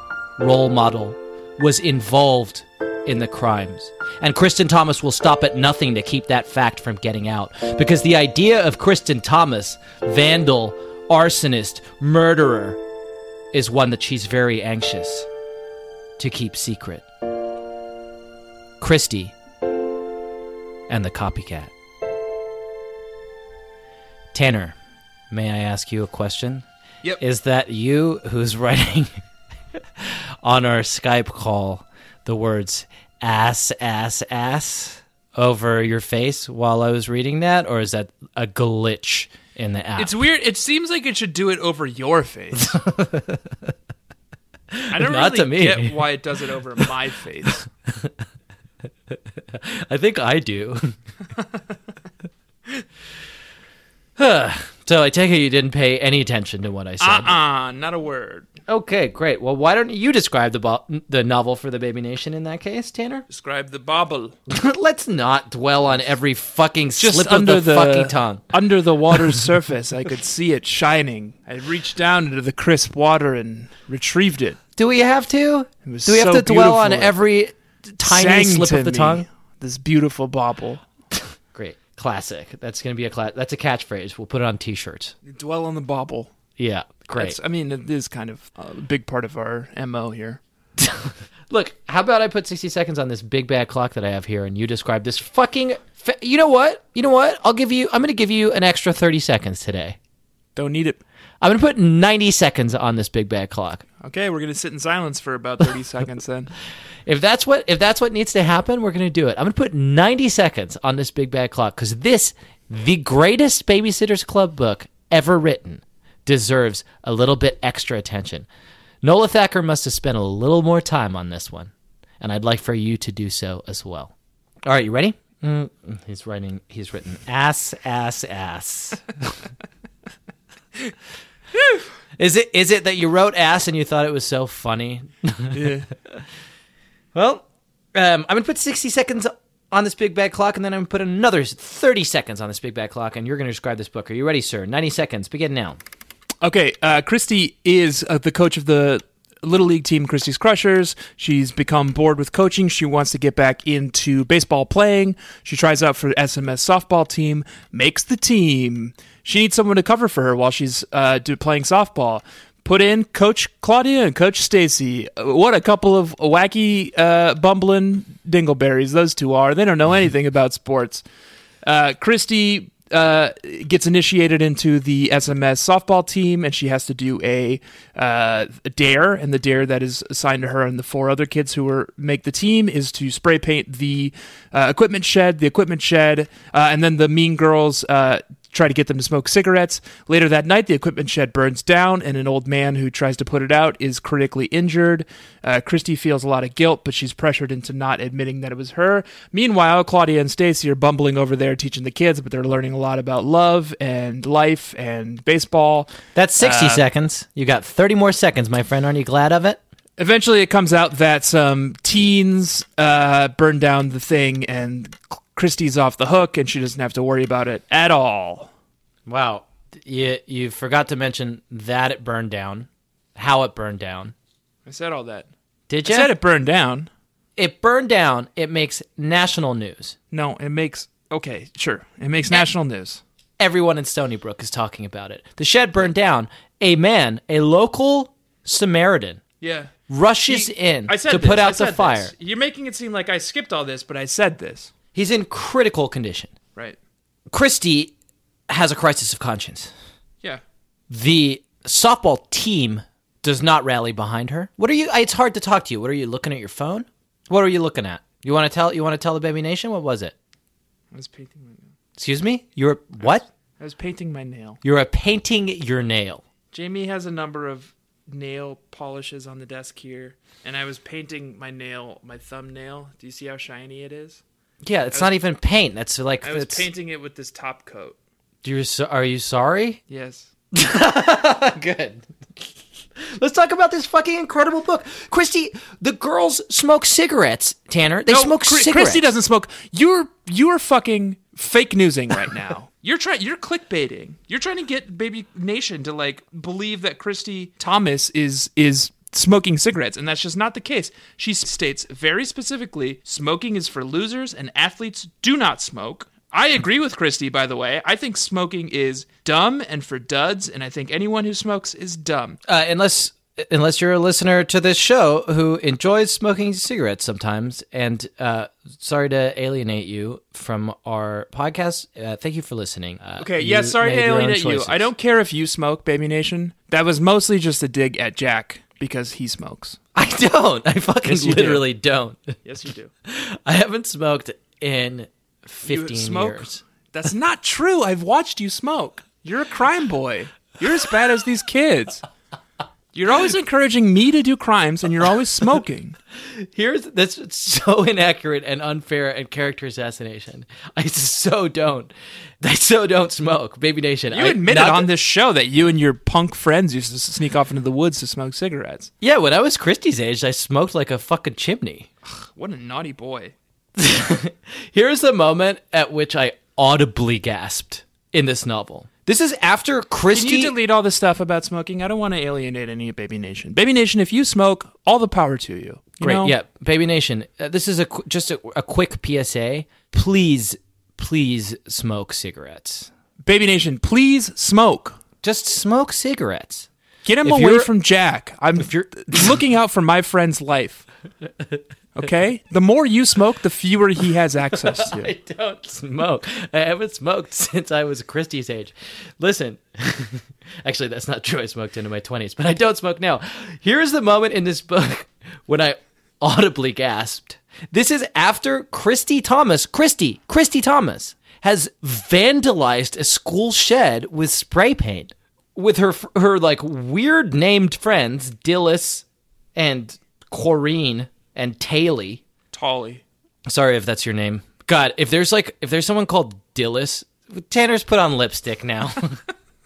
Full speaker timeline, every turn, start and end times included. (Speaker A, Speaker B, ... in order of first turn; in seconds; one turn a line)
Speaker A: 0.4-12.8
Speaker A: 13.5-15.3
Speaker A: 16.2-17.1
Speaker A: 18.8-19.4
Speaker A: 20.9-21.7
Speaker A: 24.3-24.8
Speaker A: 25.3-26.7
Speaker A: 27.2-29.2
Speaker A: 29.8-40.1
Speaker B: 40.0-42.8
Speaker A: 42.6-43.7
Speaker A: 44.7-46.1
Speaker B: 44.9-47.7
Speaker A: 47.9-48.1
Speaker A: 49.1-50.9
Speaker A: 54.2-57.4
Speaker B: 57.0-58.5
Speaker A: 58.7-63.3
Speaker B: 63.3-64.3
Speaker A: 64.5-68.5
Speaker B: 67.0-74.6
Speaker A: 69.1-69.4
Speaker A: 74.8-79.3
Speaker B: 75.8-77.2
Speaker B: 78.0-80.8
Speaker A: 81.5-85.2
Speaker B: 85.2-86.3
Speaker A: 86.6-87.4
Speaker B: 87.2-90.4
Speaker A: 90.8-100.0
Speaker B: 100.6-101.0
Speaker A: 101.4-103.8
Speaker B: 104.0-106.5
Speaker A: 107.0-118.5
Speaker A: 119.0-124.1
Speaker A: 124.6-129.3
Speaker B: 131.6-131.8
Speaker A: 132.2-136.2
Speaker B: 135.5-135.9
Speaker A: 137.1-145.8
Speaker B: 146.4-171.0
Speaker B: 171.7-206.8
Speaker A: 206.2-209.6
Speaker B: 210.0-218.5
Speaker A: 219.1-224.1
Speaker B: 224.7-225.3
Speaker A: 225.7-226.1
Speaker B: 225.8-226.9
Speaker A: 227.4-230.0
Speaker B: 230.1-233.0
Speaker A: 233.4-239.2
Speaker B: 239.4-239.7
Speaker A: 239.9-242.1
Speaker B: 240.3-244.7
Speaker A: 244.9-246.3
Speaker A: 247.3-247.9
Speaker A: 248.5-249.7
Speaker A: 250.9-260.1
Speaker B: 260.9-261.7
Speaker A: 262.0-263.3
Speaker B: 263.6-264.6
Speaker A: 264.6-266.2
Speaker B: 266.5-274.2
Speaker A: 274.6-276.7
Speaker B: 276.2-278.0
Speaker A: 278.4-279.8
Speaker B: 279.9-280.3
Speaker A: 280.5-282.1
Speaker A: 283.0-289.1
Speaker B: 288.1-312.4
Speaker A: 312.5-324.9
Speaker B: 323.2-329.8
Speaker A: 329.9-332.4
Speaker B: 331.1-331.7
Speaker B: 332.4-332.9
Speaker A: 333.1-336.6
Speaker B: 335.6-342.0
Speaker B: 342.9-346.0
Speaker A: 346.2-354.9
Speaker B: 354.1-358.9
Speaker A: 359.0-361.9
Speaker B: 362.1-363.3
Speaker A: 363.8-370.6
Speaker B: 370.1-376.3
Speaker A: 376.0-382.9
Speaker B: 383.2-385.0
Speaker A: 385.2-386.7
Speaker B: 387.1-390.9
Speaker A: 387.2-387.7
Speaker A: 388.6-389.4
Speaker B: 391.9-395.1
Speaker A: 394.6-422.2
Speaker B: 422.5-423.0
Speaker A: 423.5-429.2